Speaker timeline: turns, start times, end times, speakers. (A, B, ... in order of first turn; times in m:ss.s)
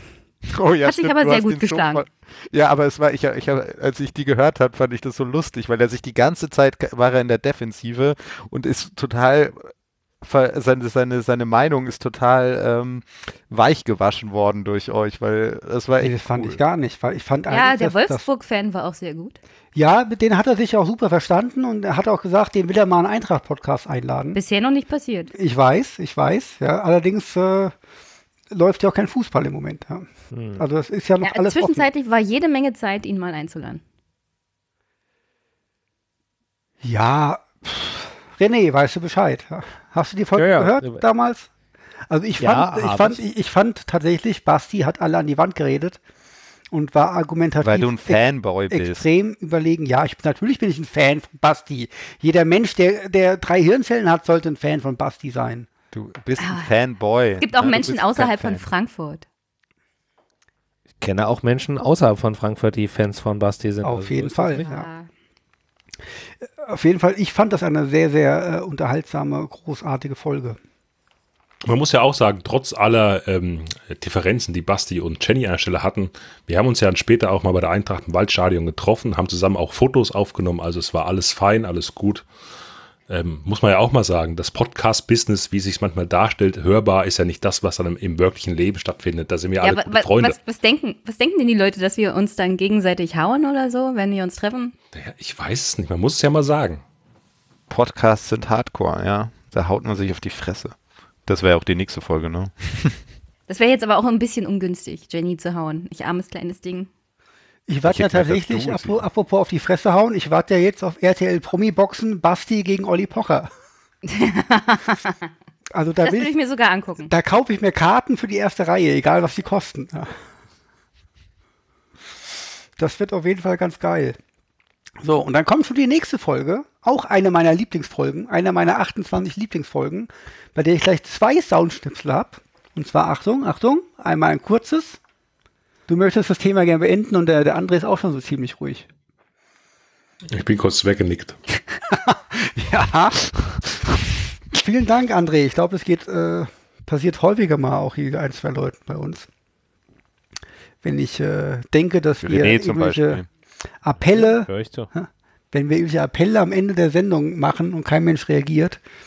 0:00.5-0:09.7 A
0:00.8-0:02.0 B
0:10.2-0:16.6 A
0:16.0-0:18.3 C
0:17.5-0:19.4 B
0:19.7-0:24.4 C
0:24.3-0:25.3 B
0:25.3-0:27.7 C
0:28.5-0:31.8 C
0:30.3-0:30.6 D
0:31.2-0:33.8 B
0:36.8-0:41.5 C
0:40.4-0:41.0 D
0:42.1-0:46.0 C
0:42.4-0:43.2 D
0:46.7-0:55.7 C
0:47.6-0:49.0 A
0:55.9-0:58.6 A
0:56.4-0:56.7 B
0:57.4-0:59.2 B
1:01.0-1:04.6 D
1:03.8-1:04.9 C
1:04.6-1:05.1 B
1:06.6-1:10.6 C
1:11.6-1:22.2 E
1:23.1-1:30.4 E
1:29.6-1:34.7 B
1:34.9-1:36.8 E
1:37.7-1:40.7 A
1:41.3-1:43.0 A
1:43.5-1:46.9 B
1:47.7-1:53.5 C
1:47.8-1:49.0 A
1:54.0-1:55.2 B
1:55.7-1:56.3 C
1:56.0-1:57.1 B
1:57.0-2:00.1 C
2:02.8-2:04.2 C
2:05.0-2:15.0 C
2:15.9-2:18.9 C
2:20.3-2:21.4 E
2:22.1-2:23.6 C
2:24.5-2:29.3 C
2:30.8-2:33.2 C
2:32.2-2:33.2 A
2:33.8-2:38.8 C
2:34.0-2:34.9 D